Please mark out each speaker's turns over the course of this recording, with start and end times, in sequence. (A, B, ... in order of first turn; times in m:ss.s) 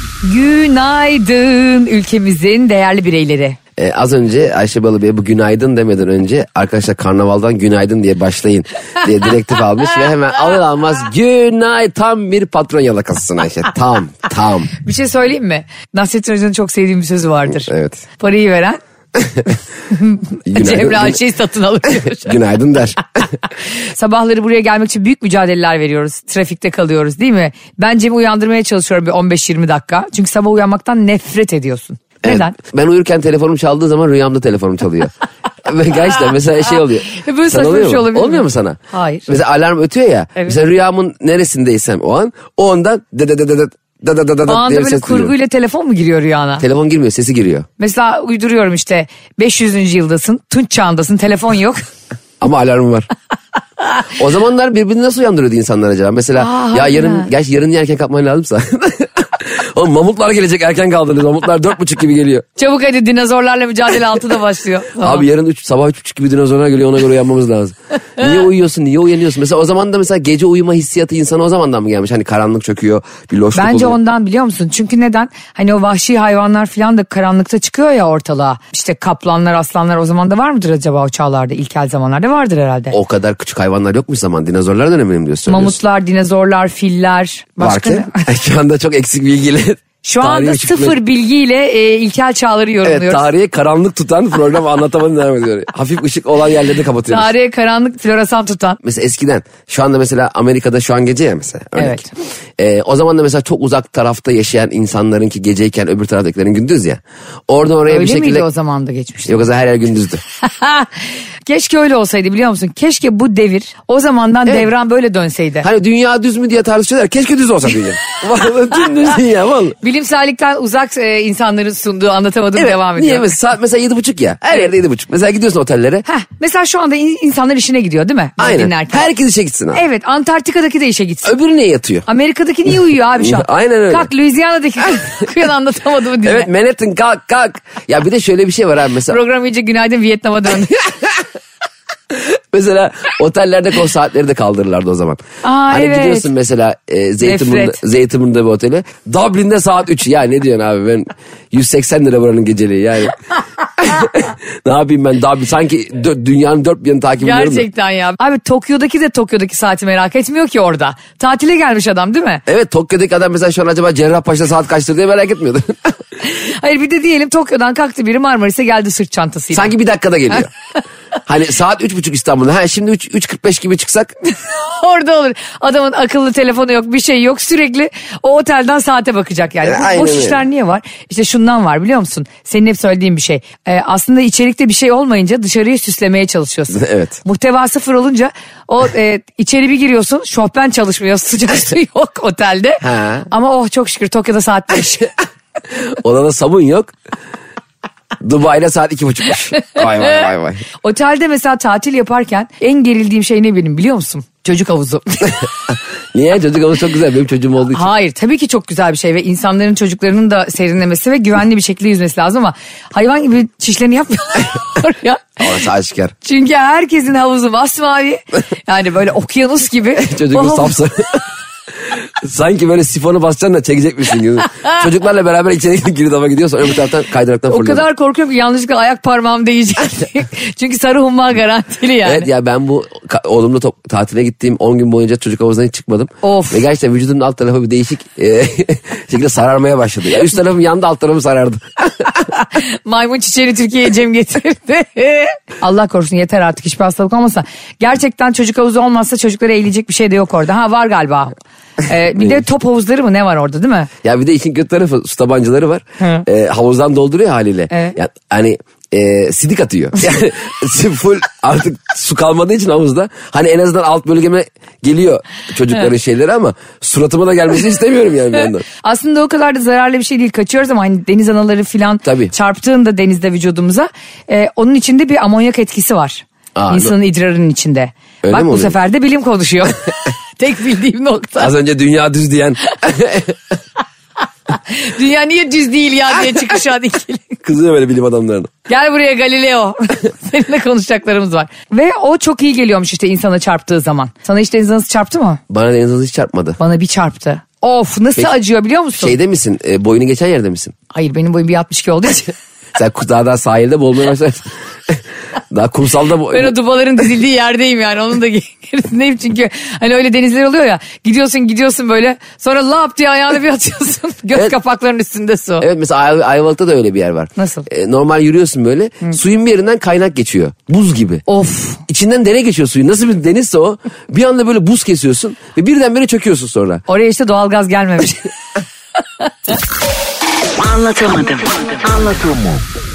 0:00.2-0:03.6 A
0:03.8-0:14.7 B
0:14.8-0:18.8 A
0:17.6-0:18.0 B
0:19.2-0:19.5 B
0:19.9-0:22.4 A
0:20.5-0:21.2 B
0:21.9-0:23.2 B
0:23.8-0:32.6 A
0:32.2-0:35.1 B
0:35.6-0:45.3 B
0:37.1-0:39.4 A
0:44.5-0:46.6 A
0:46.6-0:47.7 B
0:47.8-0:51.8 A
0:52.4-0:53.1 B
0:54.1-1:02.4 B
0:56.4-0:57.3 A
1:02.6-1:05.3 A
1:05.0-1:14.0 B
1:13.6-1:23.0 A
1:22.9-1:25.8 B
1:25.5-1:28.3 A
1:27.6-1:31.0 B
1:30.0-1:33.3 A
1:32.8-1:37.3 B
1:37.1-1:38.8 A
1:38.8-1:42.0 B
1:41.8-1:42.1 A
1:42.6-1:48.5 B
1:47.9-1:49.4 A
1:49.2-1:50.2 B
1:50.4-1:50.9 A
1:51.5-1:55.7 A
1:55.6-1:59.8 B
1:59.8-2:03.3 A
2:02.6-2:06.0 B
2:06.1-2:09.1 A
2:08.4-2:09.8 B
2:09.7-2:11.3 A
2:11.2-2:12.1 B
2:12.1-2:16.5 A
2:13.2-2:14.1 B
2:16.2-2:19.2 B
2:19.1-2:20.8 A
2:22.1-2:33.2 B
2:25.4-2:26.3 A
2:27.2-2:27.8 A
2:33.8-2:37.7 B
2:37.2-2:42.4 A
2:42.5-2:46.0 B
2:46.2-2:49.7 A
2:49.5-2:50.5 B
2:51.3-2:54.1 B
2:54.2-3:15.1 A
2:59.6-3:00.4 B
3:06.7-3:07.2 B
3:12.8-3:13.3 B
3:15.9-3:16.9 B
3:18.2-3:20.6 B
3:19.6-3:20.2 A
3:20.8-3:25.4 A
3:26.1-3:27.9 B
3:27.7-3:35.4 A
3:35.4-3:36.1 B
3:36.2-3:40.8 A
3:40.0-3:41.2 B
3:41.9-3:47.8 B
3:47.5-3:52.3 A
3:52.0-4:02.2 B
3:56.2-3:56.6 A
4:02.3-4:13.9 A
4:12.2-4:12.4 B
4:14.0-4:28.6 B
4:16.0-4:16.2 A
4:17.7-4:18.0 A
4:28.8-4:41.5 A
4:32.0-4:32.3 B
4:36.6-4:36.9 B
4:38.2-4:38.8 B
4:41.4-4:43.4 B
4:44.5-4:47.4 A
4:47.4-4:48.5 B
4:48.7-4:55.4 A
4:55.5-4:56.6 B
4:56.6-4:59.2 A
4:59.0-5:00.7 B
5:00.9-5:02.3 A
5:02.8-5:06.5 B
5:06.3-5:15.7 A
5:15.6-5:21.2 B
5:17.4-5:17.7 A
5:21.3-5:21.8 A
5:21.9-5:26.8 B
5:26.9-5:28.3 A
5:29.2-5:29.5 A
5:30.6-5:32.6 C